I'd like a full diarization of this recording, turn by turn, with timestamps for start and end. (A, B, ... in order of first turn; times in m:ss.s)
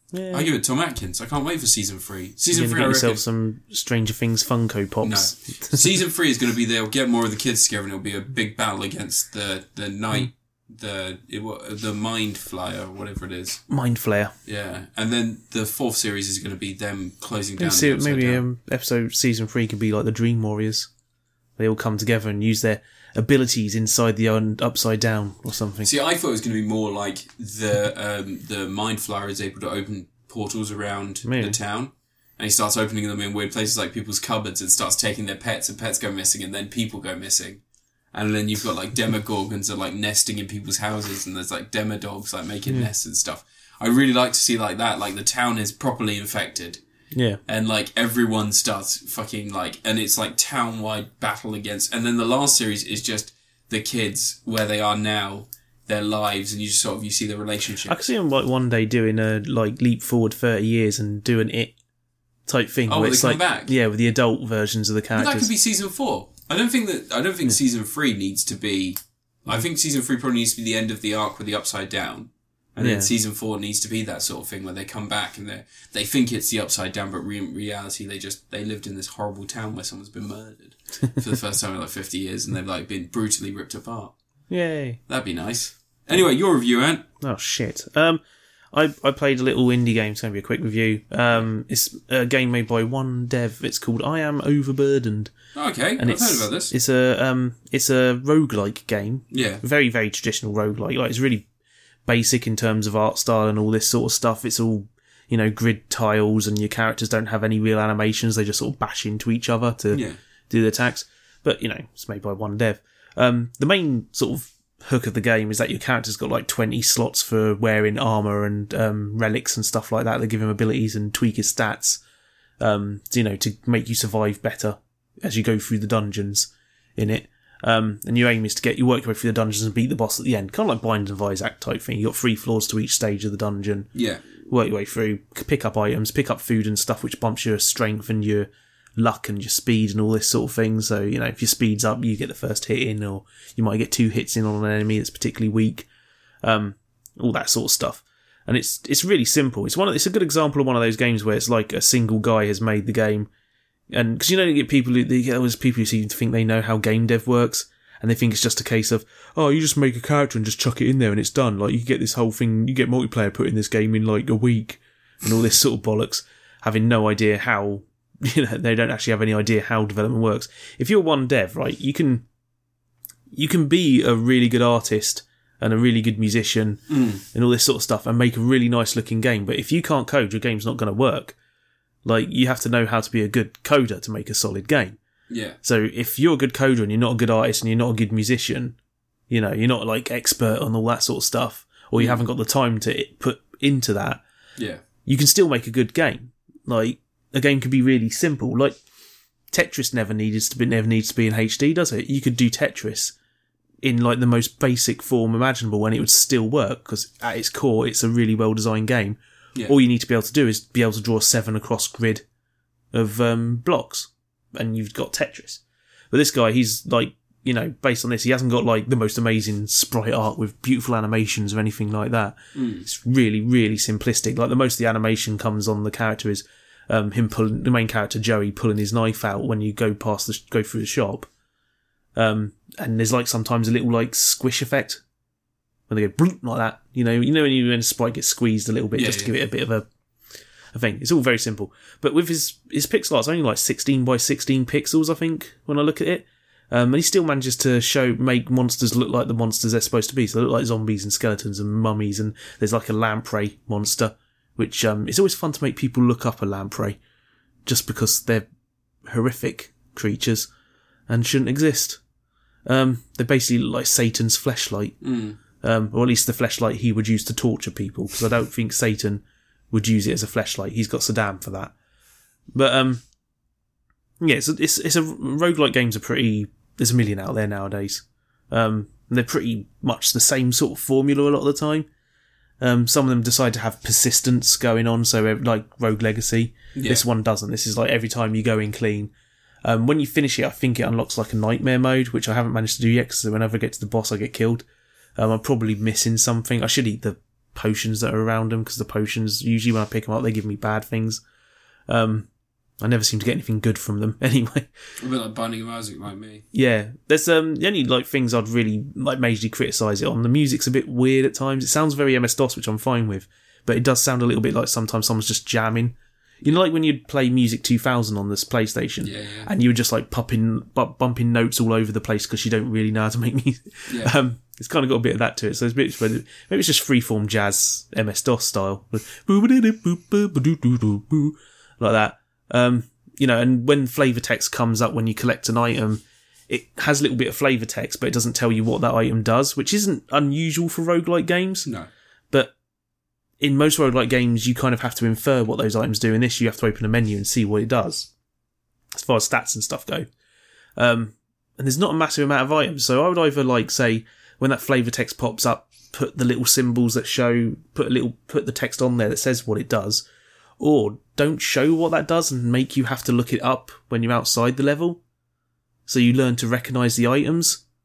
0:00.1-0:00.5 A
0:00.3-0:03.2 B
0:02.5-0:05.8 A
0:05.0-0:13.6 B
0:13.7-0:14.3 A
0:14.4-0:18.4 B
0:17.6-0:20.9 A
0:21.6-0:25.9 A
0:25.8-0:37.6 B
0:31.2-0:31.6 A
0:38.1-0:46.8 B
0:47.1-0:47.4 A
0:47.5-0:58.0 B
0:57.8-1:01.7 A
1:02.5-1:05.5 A
1:02.9-1:03.7 B
1:05.1-1:24.1 B
1:12.8-1:13.1 A
1:24.5-1:25.0 A
1:25.1-1:27.0 B
1:27.2-1:28.2 A
1:28.7-1:35.3 A
1:35.5-1:36.7 B
1:36.0-1:41.4 A
1:39.3-1:39.6 B
1:42.0-2:02.0 A
1:49.9-1:50.2 B
2:02.6-2:13.9 A
2:13.9-2:14.2 B
2:14.4-2:25.9 A
2:26.4-2:33.3 A
2:33.9-2:52.2 A
2:53.3-3:01.4 A
2:56.9-2:57.2 B
3:02.0-3:05.0 A
3:05.3-3:05.6 B
3:05.6-3:08.8 A
3:09.3-3:14.2 A
3:12.0-3:12.2 B
3:14.6-3:14.8 B
3:15.0-3:18.8 A
3:19.5-3:23.1 A
3:23.8-3:32.2 A
3:32.9-3:51.3 A
3:42.5-3:42.8 B
3:52.1-3:55.0 A
3:55.9-3:59.8 A
3:58.9-3:59.3 B
4:00.7-4:17.0 A
4:17.6-4:18.4 A
4:19.0-4:20.5 A
4:21.1-4:22.0 A
4:22.6-4:25.0 A
4:25.0-4:25.4 B
4:25.6-4:31.7 A
4:32.5-4:33.0 A
4:34.2-4:41.8 A
4:42.6-4:49.1 A
4:46.7-4:47.0 B
4:49.6-4:54.6 A
4:55.2-5:01.2 A
5:01.9-5:02.3 A
5:02.8-5:04.7 A
5:05.0-5:06.4 B
5:06.5-5:41.7 A
5:19.0-5:19.5 B
5:23.9-5:24.1 B
5:43.4-5:48.1 A
5:48.9-5:50.1 A
5:50.8-6:00.0 A
6:00.6-6:05.0 A
6:05.9-6:07.6 A